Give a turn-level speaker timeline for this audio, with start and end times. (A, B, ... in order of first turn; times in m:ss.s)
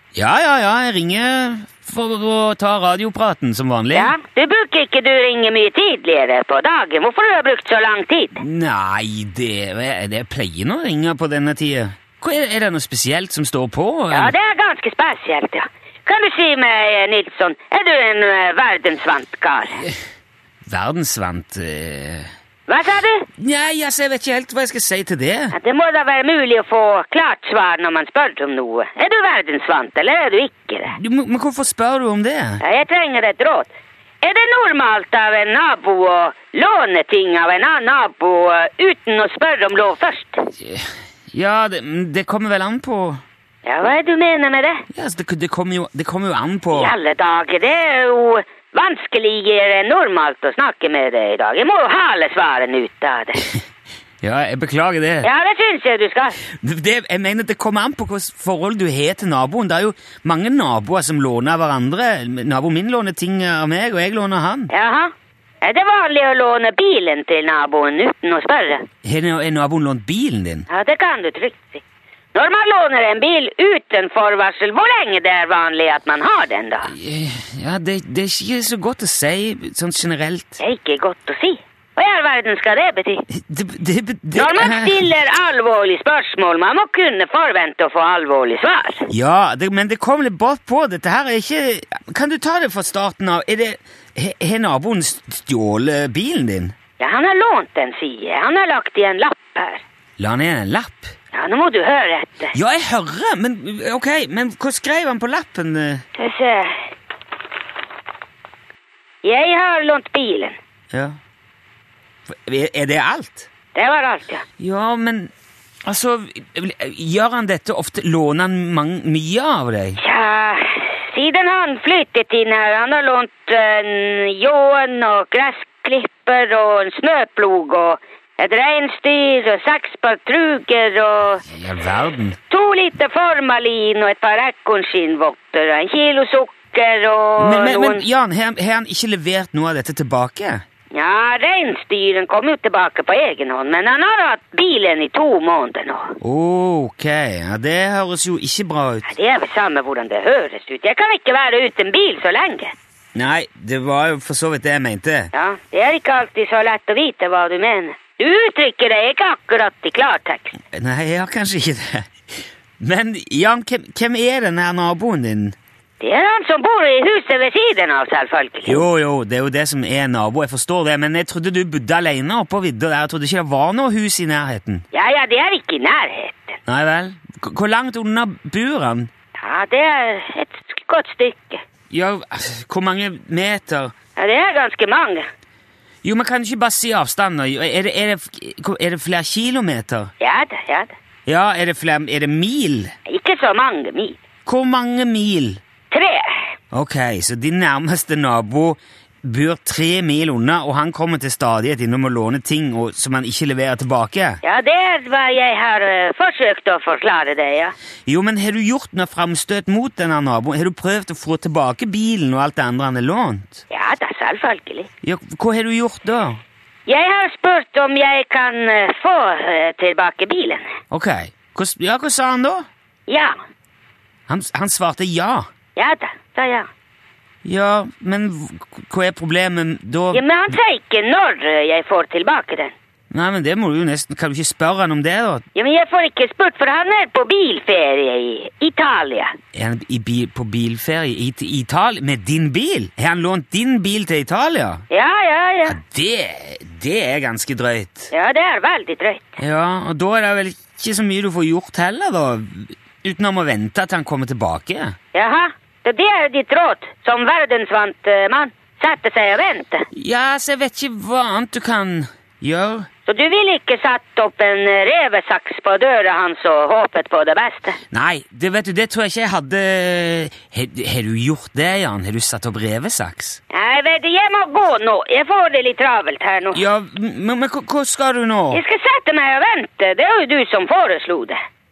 0:00.2-0:04.2 A
0:03.9-0:08.4 B
0:08.4-0:14.3 A
0:14.1-0:19.8 B
0:20.7-0:22.3 A
0:22.7-0:23.3 B
0:23.4-0:25.6 A
0:25.5-0:31.0 B
0:30.9-0:32.6 A
0:32.6-0:33.7 B
0:34.2-0:40.5 B
0:40.6-0:43.2 A
0:43.6-0:44.8 B
0:44.9-0:46.9 A
0:46.7-0:53.5 B
0:54.2-0:55.3 A
0:55.2-0:56.4 B
0:56.5-1:04.7 A
1:04.7-1:08.9 B
1:09.0-1:10.7 A
1:10.7-1:11.8 B
1:12.3-1:16.9 B
1:16.9-1:20.6 A
1:20.6-1:23.2 B
1:23.3-1:25.0 A
1:24.3-1:29.1 B
1:29.1-1:36.8 A
1:37.0-1:39.8 B
1:40.2-1:41.1 A
1:41.3-1:42.6 B
1:42.5-1:46.0 A
1:46.2-1:46.8 B
1:49.2-1:50.6 B
1:52.3-1:53.5 A
1:53.8-1:54.4 B
1:54.6-1:55.3 A
1:55.8-2:00.0 A
2:00.0-2:11.4 B
2:11.4-2:12.4 A
2:12.5-2:18.0 B
2:17.4-2:20.6 A
2:20.9-2:26.2 B
2:26.2-2:29.1 A
2:29.0-2:32.7 B
2:33.2-2:35.3 A
2:35.3-2:40.6 B
2:40.7-2:42.1 A
2:42.8-2:45.6 A
2:46.0-2:48.8 B
2:48.7-2:54.8 A
2:54.9-2:56.6 B
2:56.7-2:59.1 A
2:59.4-3:01.6 B
3:01.9-3:03.9 A
3:04.2-3:05.3 B
3:06.0-3:10.1 A
3:10.2-3:10.9 B
3:11.3-3:12.9 A
3:13.1-3:14.2 B
3:14.5-3:15.6 A
3:15.9-3:16.4 B
3:16.7-3:24.4 A
3:24.4-3:27.7 B
3:28.1-3:33.6 A
3:33.7-3:34.9 B
3:35.0-3:36.4 A
3:36.9-3:40.7 B
3:40.9-3:42.7 A
3:43.1-3:43.4 B
3:44.3-3:45.5 A
3:45.8-3:46.7 B
3:47.4-3:50.2 A
3:50.1-3:52.7 B
3:53.1-3:55.4 A
3:55.6-3:59.3 B
3:59.6-4:04.8 A
4:04.9-4:05.8 B
4:05.7-4:08.1 A
4:08.1-4:09.4 B
4:09.4-4:15.0 A
4:15.1-4:19.9 B
4:19.9-4:22.9 A
4:23.1-4:27.8 B
4:27.9-4:33.4 A
4:33.5-4:36.6 B
4:36.5-4:38.6 A
4:38.5-4:41.4 B